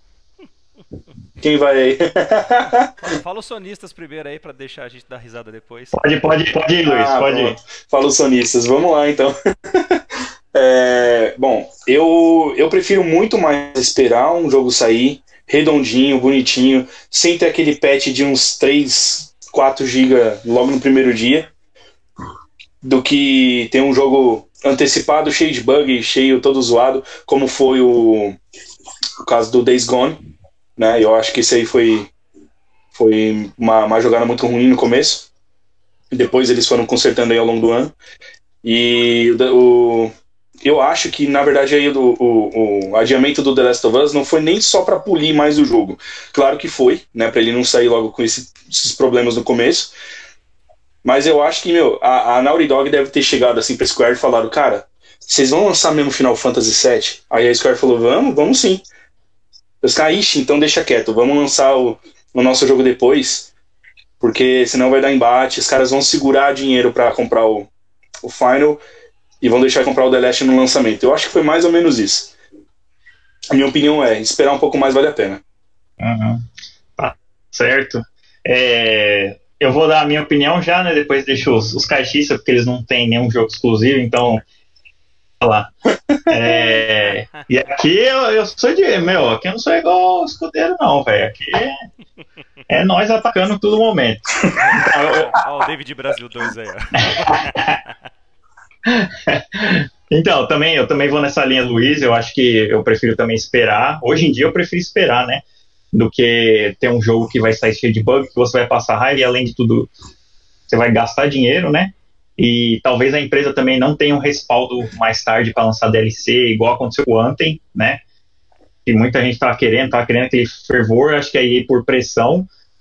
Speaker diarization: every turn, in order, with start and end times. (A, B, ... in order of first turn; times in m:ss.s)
0:01.4-0:02.9 A
0:03.0-0:06.0 B
0:05.9-0:07.6 C
0:06.9-0:10.0 A
0:10.5-0:21.5 A
0:22.8-0:28.4 A
0:29.2-0:30.2 A
0:30.8-0:32.1 A
0:32.9-0:35.3 A
0:36.1-0:37.9 A
0:38.6-0:40.1 A
0:40.6-0:49.9 A
0:51.0-0:58.9 A
0:59.8-1:03.5 A
1:04.2-1:07.7 A
1:08.2-1:08.8 A
1:09.4-1:12.3 A
1:13.5-1:15.4 A
1:16.0-1:16.4 C
1:17.0-1:24.4 C
1:25.4-1:25.7 C
1:26.3-1:31.7 C
1:27.0-1:27.4 B
1:32.7-1:35.4 C
1:34.6-1:37.9 B
1:37.0-1:37.8 C
1:38.9-1:49.9 C
1:50.7-1:58.0 C
1:58.8-2:02.5 C